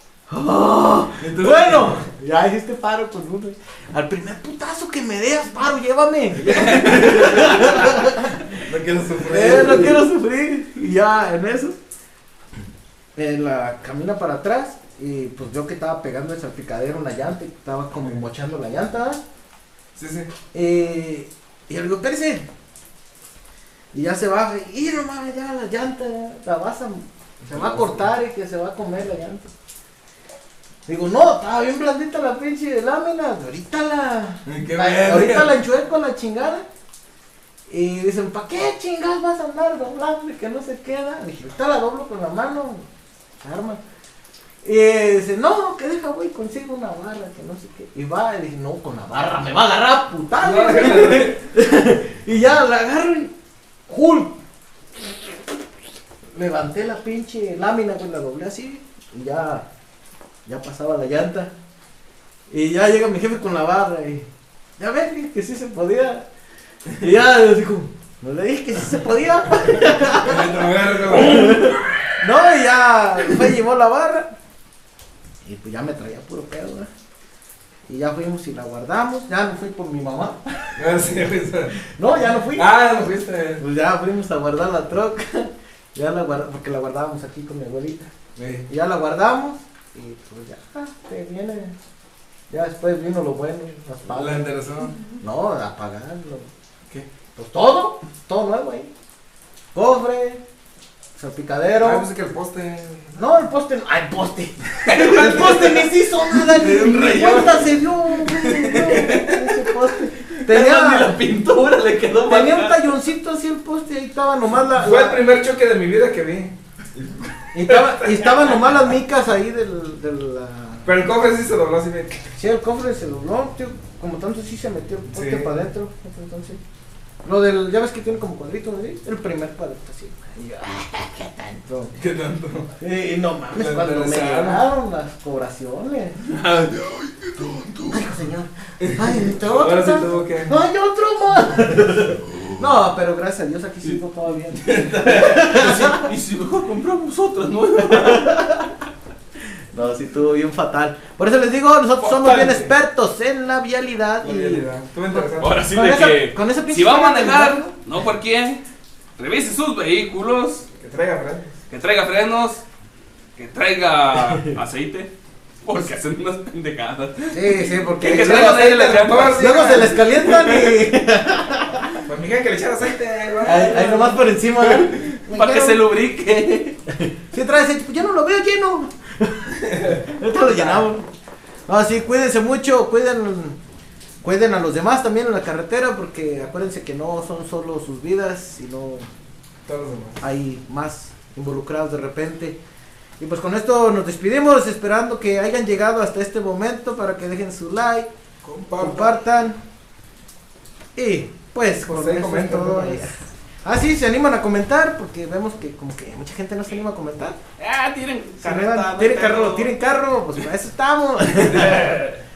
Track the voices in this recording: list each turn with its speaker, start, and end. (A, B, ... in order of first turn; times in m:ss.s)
0:00.3-0:08.6 A
0:01.2-0:02.0 B
0:06.4-0:08.0 B
0:06.9-0:07.7 C
0:08.6-0:10.0 B
0:09.2-0:11.8 A
0:13.2-0:19.2 A
0:19.9-0:20.3 B
0:20.5-0:22.5 A
0:23.9-0:29.5 A
0:27.5-0:28.0 B
0:30.9-0:36.7 A
0:34.4-0:35.5 B
0:37.7-0:42.9 A
0:43.4-0:43.8 A
0:44.6-0:53.3 A
0:50.4-0:51.4 B
0:53.9-0:54.4 A
0:56.4-0:59.6 A
1:00.4-1:01.5 A
1:02.5-1:04.3 A
1:04.8-1:06.3 A
1:06.9-1:10.6 A
1:09.8-1:11.8 B
1:11.1-1:14.3 A
1:15.4-1:16.9 A
1:17.9-1:20.8 A
1:20.8-1:21.8 B
1:21.9-1:22.7 A
1:22.5-1:23.6 B
1:23.6-1:28.1 A
1:28.4-1:28.6 B
1:28.7-1:31.8 A
1:32.5-1:34.5 A
1:34.1-1:35.0 B
1:35.2-1:36.5 A
1:37.3-1:38.9 A
1:39.7-1:40.4 A
1:41.2-1:42.1 A
1:41.8-1:43.2 B
1:43.1-1:51.2 A
1:44.8-1:52.8 C
1:45.1-1:45.7 B
1:46.6-1:47.5 B
1:52.3-1:55.2 A
1:54.8-1:57.1 B
1:57.5-2:00.9 A
1:57.7-1:58.0 B
2:00.8-2:02.2 B
2:02.3-2:06.6 A
2:05.1-2:05.5 B
2:07.2-2:11.9 A
2:12.0-2:12.7 B
2:12.8-2:16.2 A
2:13.5-2:14.6 B
2:16.2-2:17.3 C
2:17.3-2:17.8 B
2:17.9-2:26.1 A
2:18.8-2:20.5 B
2:24.6-2:28.5 C
2:27.8-2:28.8 A
2:29.5-2:34.7 A
2:32.0-2:32.7 B
2:34.2-2:35.7 B
2:35.3-2:38.6 C
2:35.7-2:37.7 A
2:39.2-2:40.7 C
2:40.7-2:41.6 B
2:41.7-2:42.6 C
2:43.4-2:45.1 C
2:45.6-2:50.7 C
2:47.3-2:52.0 A
2:48.0-2:50.0 B
2:52.0-2:54.1 B
2:53.4-2:55.8 A
2:53.7-2:56.8 C
2:56.9-3:01.1 A
2:59.5-3:00.7 B
3:01.7-3:03.6 A
3:04.2-3:09.1 A
3:09.6-3:10.2 B
3:10.2-3:12.6 A
3:13.2-3:18.1 A
3:18.4-3:19.2 B
3:18.8-3:19.6 A
3:21.0-3:27.4 A
3:21.8-3:23.1 B
3:27.6-3:29.7 C
3:28.4-3:31.8 A
3:31.3-3:32.2 B